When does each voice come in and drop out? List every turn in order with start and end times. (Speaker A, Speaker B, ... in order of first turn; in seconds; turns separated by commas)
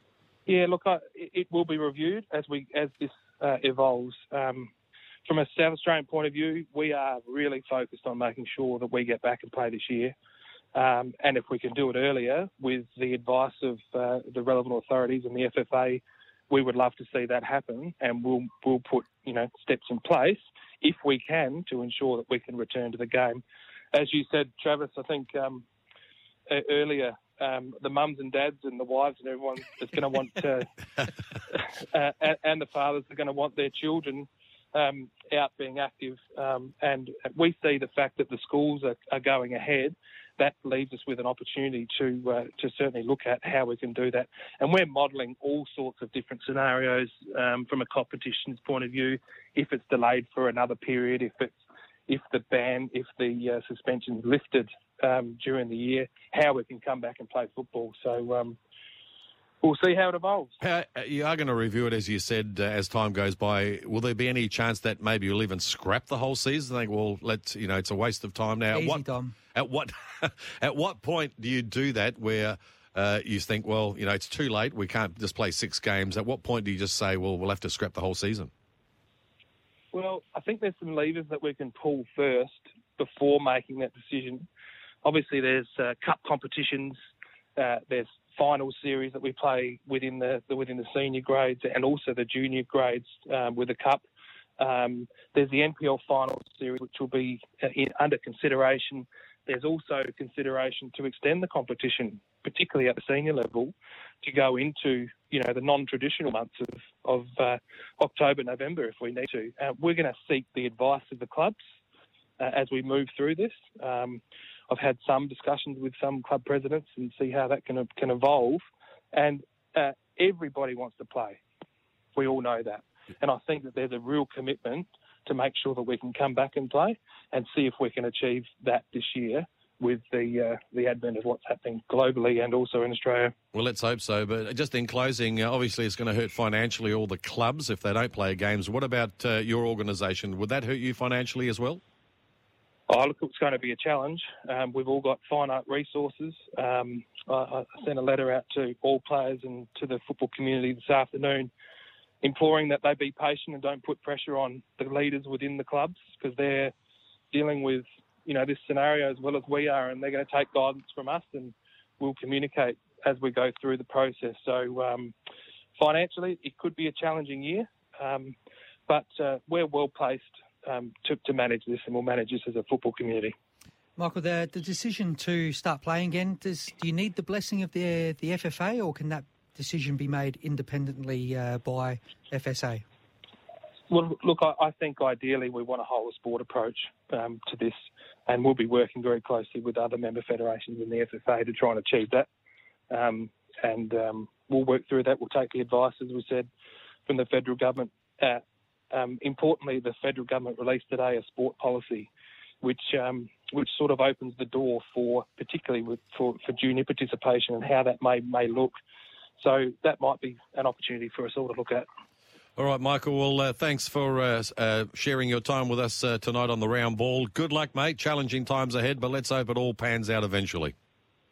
Speaker A: 0.5-4.7, Speaker A: 5.2-10.1, Speaker A: 10.7-23.4, Speaker A: 23.9-25.6, Speaker A: 26.5-30.7, Speaker A: 31.5-58.6, Speaker A: 59.6-60.5, Speaker B: 60.6-69.0, Speaker C: 68.7-69.3, Speaker B: 69.5-78.5, Speaker A: 79.9-84.5, Speaker A: 85.0-87.0, Speaker A: 87.5-94.0, Speaker A: 94.6-111.6, Speaker A: 112.4-121.4, Speaker A: 122.1-133.3, Speaker B: 133.5-141.8, Speaker A: 142.9-151.5, Speaker A: 152.2-156.7, Speaker A: 157.3-165.1, Speaker A: 165.8-168.3, Speaker A: 168.9-173.3, Speaker C: 174.0-182.8, Speaker A: 183.9-192.3, Speaker A: 192.9-196.5, Speaker A: 197.1-202.1, Speaker A: 202.6-208.7, Speaker A: 209.4-211.9, Speaker B: 212.6-220.7